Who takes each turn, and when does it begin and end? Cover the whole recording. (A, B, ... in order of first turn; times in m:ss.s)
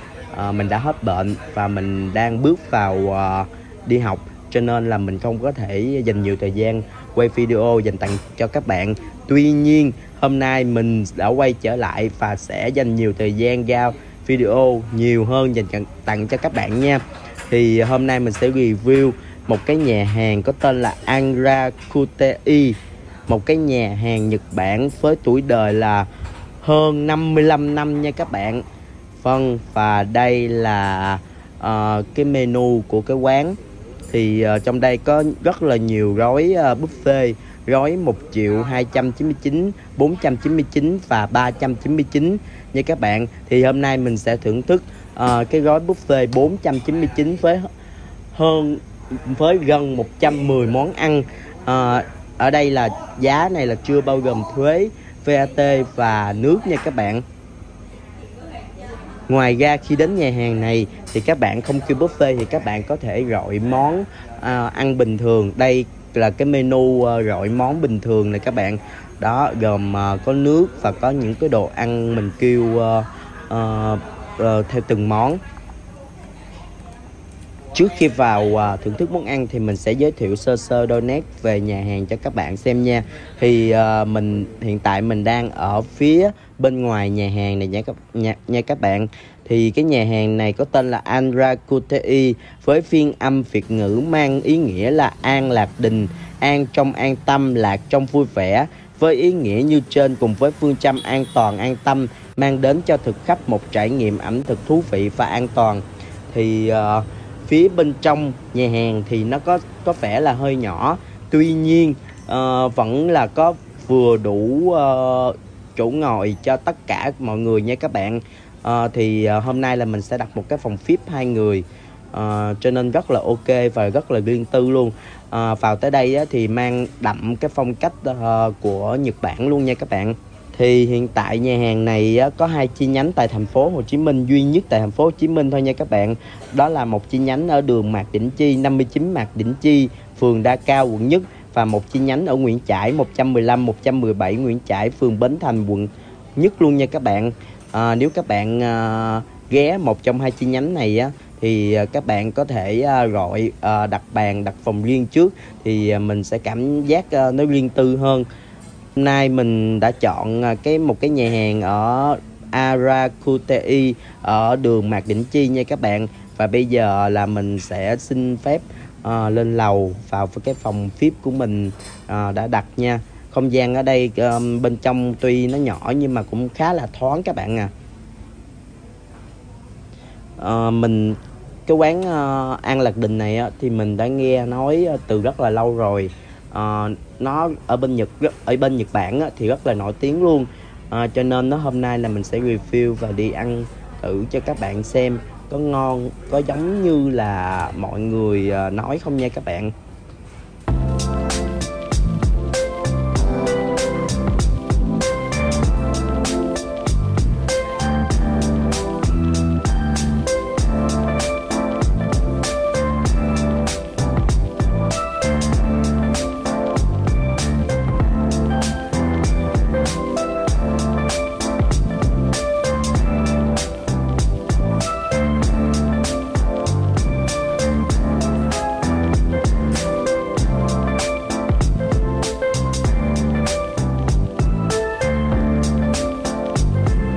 0:00.3-0:26.1 A
0:26.6-0:28.6 A
0:29.2-0:33.6 A
0:34.1-0:47.7 A
0:48.3-0:57.2 A
0:59.3-1:15.4 A
1:17.7-2:38.2 A
2:39.0-2:57.7 A
3:00.4-3:19.7 A